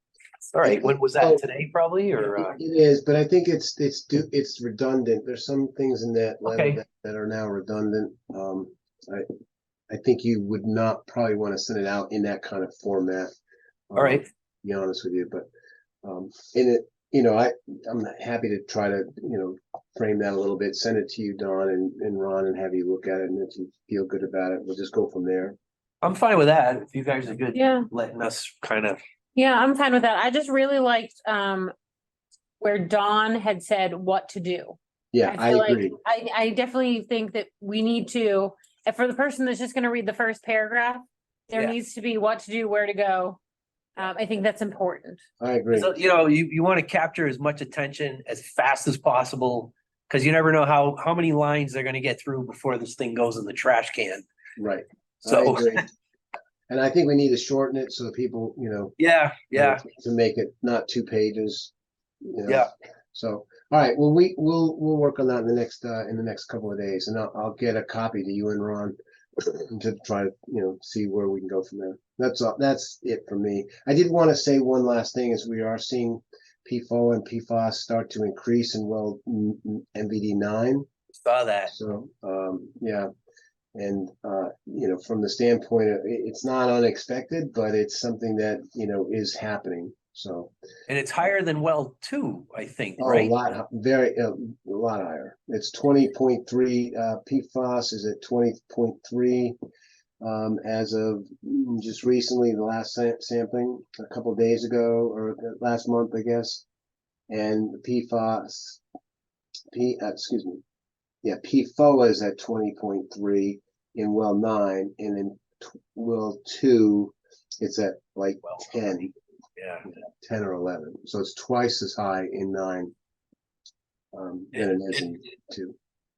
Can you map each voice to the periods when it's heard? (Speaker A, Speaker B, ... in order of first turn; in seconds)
Speaker A: 0.5-2.6, 6.5-6.8, 13.9-14.2, 26.0-29.0, 45.7-54.2, 55.2-55.8, 59.0-59.8, 81.2-81.7, 90.9-93.3, 119.6-119.8
Speaker B: 0.6-1.4, 2.3-9.3, 9.9-13.3, 13.9-15.5, 16.0-25.6, 35.1-36.0, 45.4-45.9, 54.6-55.9, 56.7-59.0, 59.5-80.8, 81.7-83.1, 83.7-90.5, 93.0-99.5, 100.2-106.6, 107.3-108.8, 109.7-110.6, 111.2-119.1, 119.8-122.9, 124.1-125.7
Speaker C: 27.5-27.9, 29.3-31.7, 32.6-43.4, 44.0-45.2